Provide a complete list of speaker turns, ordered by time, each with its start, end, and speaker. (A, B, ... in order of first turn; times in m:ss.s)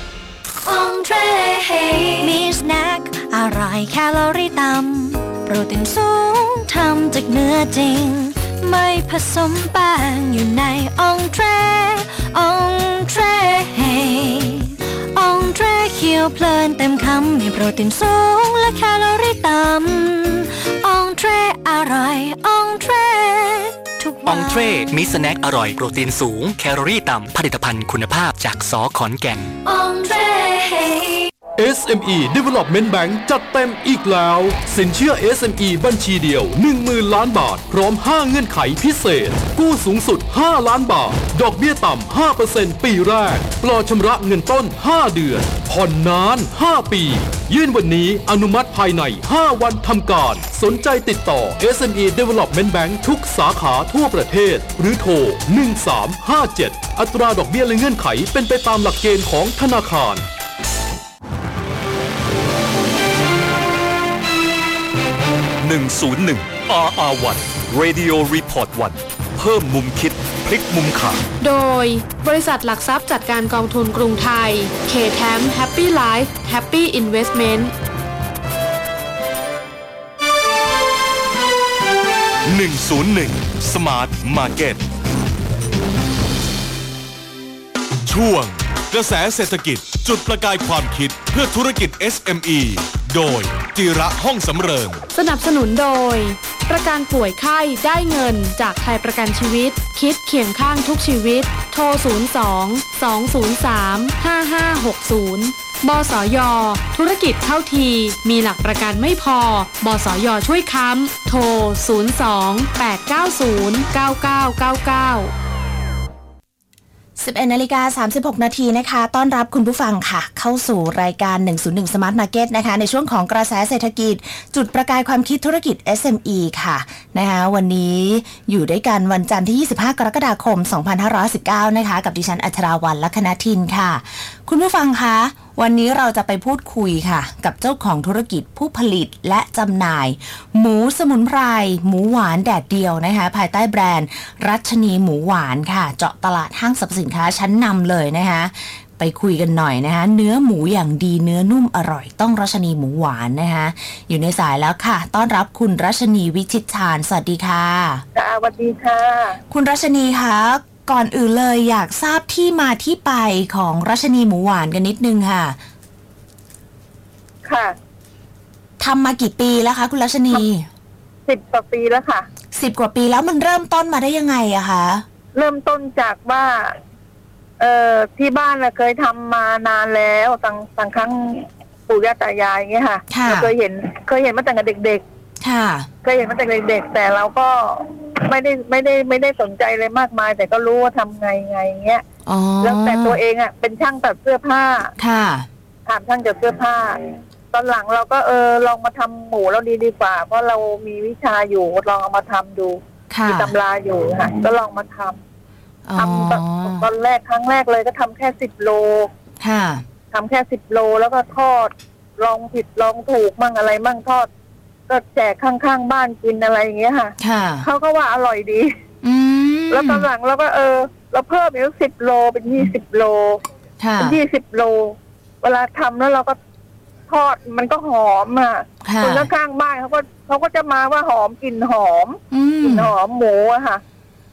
0:00.6-0:24.8 A
0:24.2-0:29.6 B
0:29.6-0:31.3 A
0:31.6-1:00.2 C
1:05.6-1:11.2 D
1:11.4-1:17.7 E
1:22.5-1:24.8 D
1:28.1-1:35.0 D
1:35.1-1:55.3 E
1:57.2-2:38.0 F
2:38.2-2:39.4 G
2:39.5-2:45.6 F
2:47.4-2:47.8 G
2:48.8-2:50.7 F
2:51.3-2:52.3 G
2:52.5-2:55.0 F
2:55.4-2:56.8 G
2:57.6-3:05.0 G
3:03.1-3:03.5 F
3:05.4-3:05.9 F
3:06.0-3:12.0 G
3:12.2-3:13.2 F
3:12.6-3:14.9 G
3:15.0-3:15.5 F
3:15.9-3:25.2 G
3:23.1-3:23.5 F
3:25.8-3:26.9 F
3:26.0-3:29.1 G
3:29.4-3:29.8 F
3:30.1-3:34.3 G
3:34.9-3:38.7 G
3:37.2-3:37.7 F
3:39.0-3:40.1 F
3:39.7-3:43.4 G
3:43.8-3:44.2 F
3:44.0-3:46.4 G
3:47.1-3:53.8 G
3:48.8-3:49.3 F
3:52.3-3:52.9 F